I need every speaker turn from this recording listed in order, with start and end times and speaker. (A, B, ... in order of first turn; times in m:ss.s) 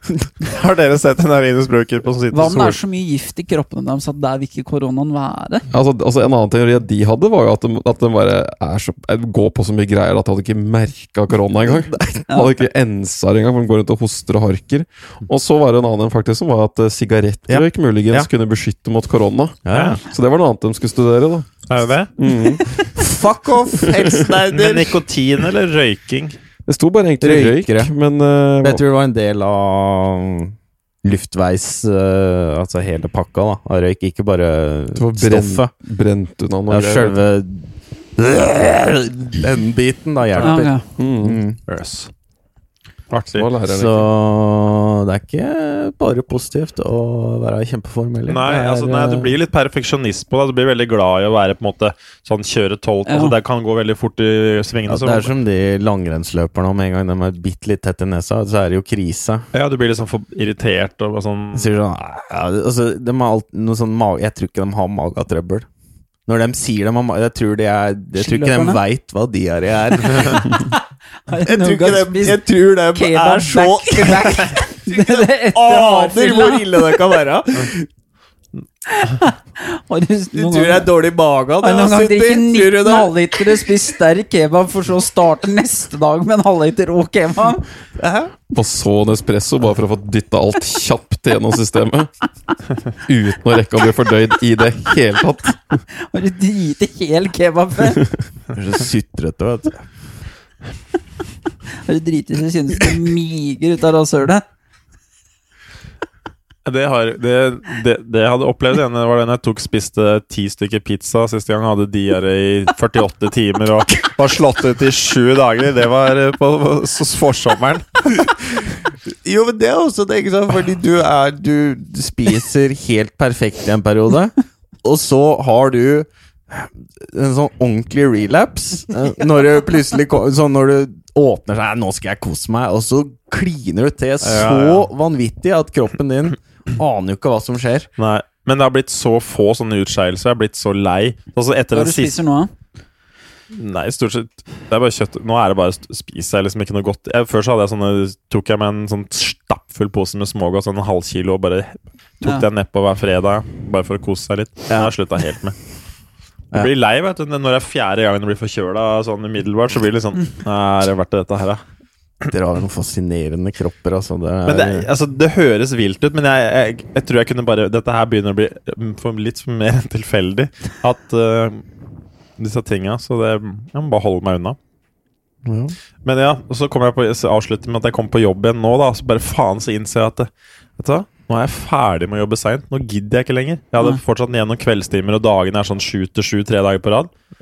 0:00.4-0:02.8 A
0:02.3-0:05.6 B
0:05.7-0:21.5 C
0:17.5-0:18.3 D
0:19.7-0:20.0 D
0:19.7-0:20.0 A
0:21.7-0:22.1 A
0:22.2-0:22.8 C
0:22.9-0:25.0 D
0:23.8-0:24.3 C
0:24.5-0:26.4 A
0:26.7-0:28.8 C
0:27.2-0:27.9 D
0:28.6-0:35.7 D
0:35.0-0:37.2 C
0:36.7-0:41.6 D
0:40.3-0:40.6 A
0:40.4-0:40.8 B
0:41.0-0:41.4 C
0:41.7-0:42.1 A
0:43.1-0:43.5 A
0:43.3-0:44.1 C
0:43.6-0:49.3 D
0:48.3-0:55.3 A
0:53.1-0:53.4 B
0:54.9-0:59.5 D
0:59.5-1:01.7 A
1:01.6-1:05.7 D
1:06.3-1:10.7 D
1:08.2-1:08.8 B
1:10.2-1:17.1 B
1:11.4-1:17.9 D
1:18.9-1:20.9 B
1:20.3-1:23.6 D
1:21.6-1:27.7 B
1:28.0-1:28.3 D
1:28.5-1:32.1 C
1:33.0-1:35.8 C
1:36.0-1:38.1 B
1:38.5-1:39.8 D
1:41.8-1:44.4 B
1:46.6-1:58.3 A
1:59.1-2:17.9 D
2:14.2-2:14.9 A
2:18.0-2:22.2 A
2:21.7-2:22.5 B
2:23.5-2:35.6 A
2:36.5-2:41.6 A
2:42.3-2:44.9 D
2:44.5-2:51.6 A
2:52.4-2:54.6 A
2:55.4-2:55.8 D
2:56.0-3:07.1 A